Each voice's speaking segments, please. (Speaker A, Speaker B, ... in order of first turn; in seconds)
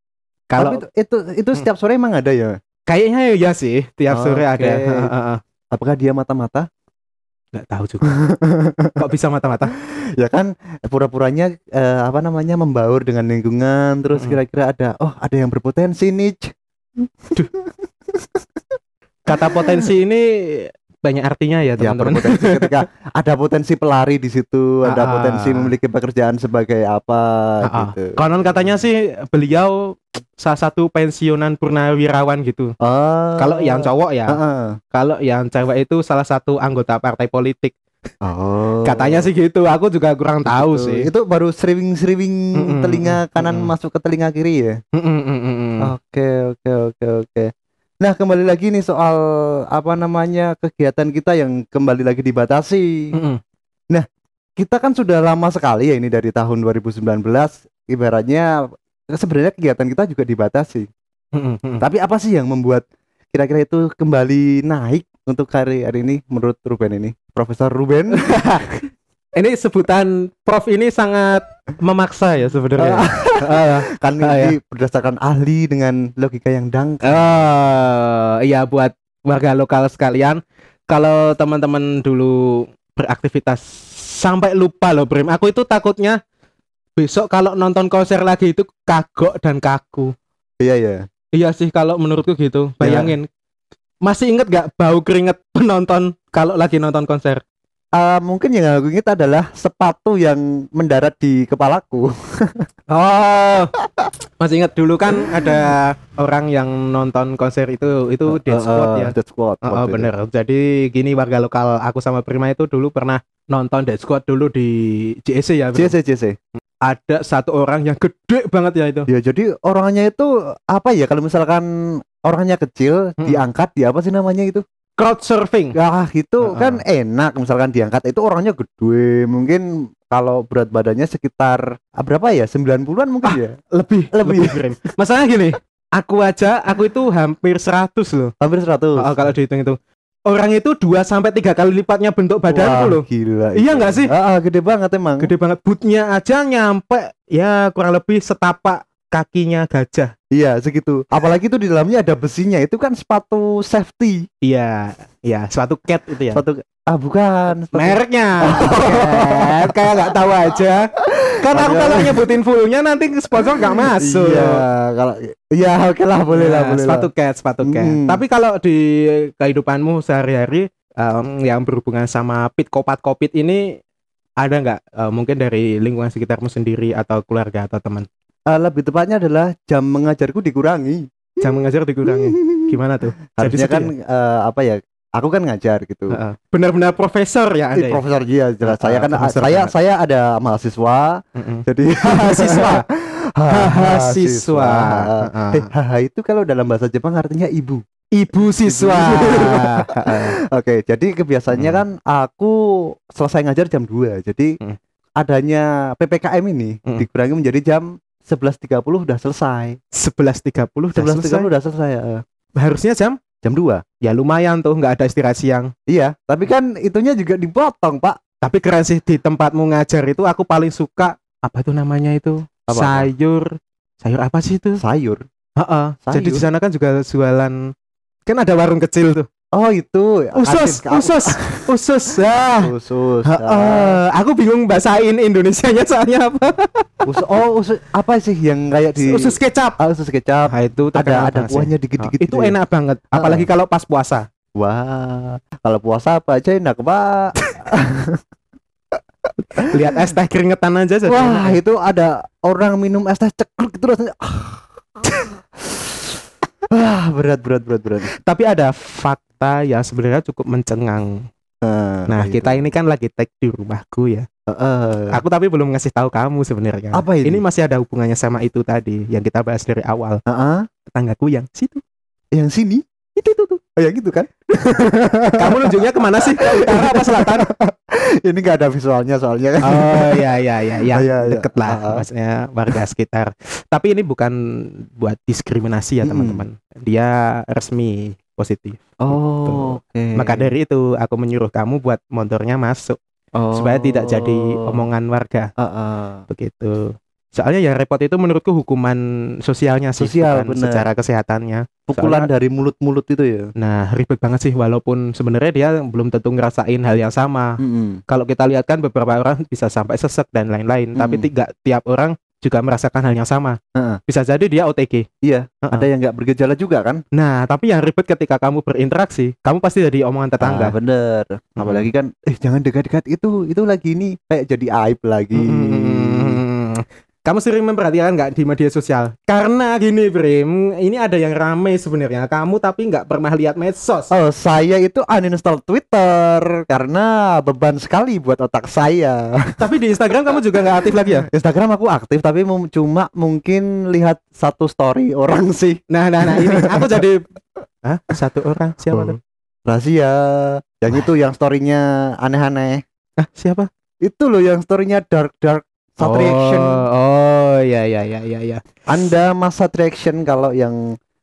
Speaker A: 0.5-0.8, 2.9-5.4, 7.5-8.1, 8.9-9.7, 19.3-22.7, 24.8-25.7, 27.6-32.7, 33.4-34.4, 34.9-37.7, 38.8-41.1, 42.5-43.7, 44.9-45.9, 53.1-53.4, 61.3-61.8, 68.2-68.8, 69.3-74.5, 77.0-86.2, 87.0-90.1, 91.3-93.3, 94.0-97.4, 102.9-103.7, 104.4-115.9, 116.8-119.1, 125.0-125.8, 126.4-126.8, 133.2-138.3, 139.0-144.1, 145.2-150.1, 154.4-156.4, 157.7-160.9, 161.4-164.6, 166.3-173.8, 174.4-178.1, 181.4-183.9, 186.1-188.0, 188.6-189.7, 191.3-192.8, 193.5-195.7, 198.1-200.3, 201.5-201.8, 209.9-211.5, 212.6-213.2, 214.0-215.7, 218.4-224.8, 225.6-227.6, 228.3-229.3, 230.3-232.7, 233.2-237.0, 239.0-239.8, 240.5-244.2, 249.5-251.6, 258.1-261.2, 262.1-264.3, 265.1-270.2, 270.9-271.8, 273.2-273.6, 275.4-277.5, 279.6-284.4, 285.0-293.0, 293.5-295.5, 296.3-302.3, 303.6-307.6, 308.1-315.1, 317.1-320.7, 321.6-321.9, 325.3-334.1, 339.6-341.3, 345.9-347.2, 347.8-349.2, 353.2-353.7, 356.0-358.6
Speaker B: 0.6-2.5, 4.1-5.1, 5.7-6.7, 8.1-9.0, 10.2-16.5, 17.0-18.3, 19.4-19.8, 21.8-28.2, 32.8-34.8, 38.2-39.3, 40.5-44.8, 45.8-47.5, 48.0-53.1, 54.6-58.5, 59.1-60.9, 61.8-68.2, 72.8-77.2, 90.6-91.0, 92.8-93.1, 98.0-102.7, 103.8-104.1, 105.1-105.7, 108.3-110.1, 115.7-116.4, 119.1-124.6, 125.7-133.6, 134.1-134.6, 138.4-139.1, 142.5-145.3, 150.3-154.2, 156.3-160.1, 161.0-162.3, 163.3-167.1, 167.6-168.2, 178.5-181.5, 182.0-182.8, 183.4-186.2, 187.7-197.8, 198.7-204.6, 205.2-209.8, 210.9-212.2, 213.4-213.8, 215.9-218.2, 222.7-223.1, 224.8-225.2, 226.1-226.4, 229.5-231.7, 232.6-234.0, 237.1-242.5, 243.1-243.5, 244.6-248.2, 249.6-249.9, 251.1-254.7, 255.6-256.1, 256.7-258.1, 261.6-262.6, 264.5-265.1, 266.9-267.4, 270.3-270.7, 272.3-272.8, 273.7-280.2, 280.9-282.0, 286.0-286.4, 289.0-290.5, 293.4-294.7, 295.6-296.2, 300.0-300.8, 301.9-303.5, 307.6-308.0, 311.0-311.3, 315.2-317.0, 320.4-326.4, 334.1-339.6, 340.3-347.0, 348.9-349.1, 349.7-352.8, 354.0-356.8, 358.9-360.8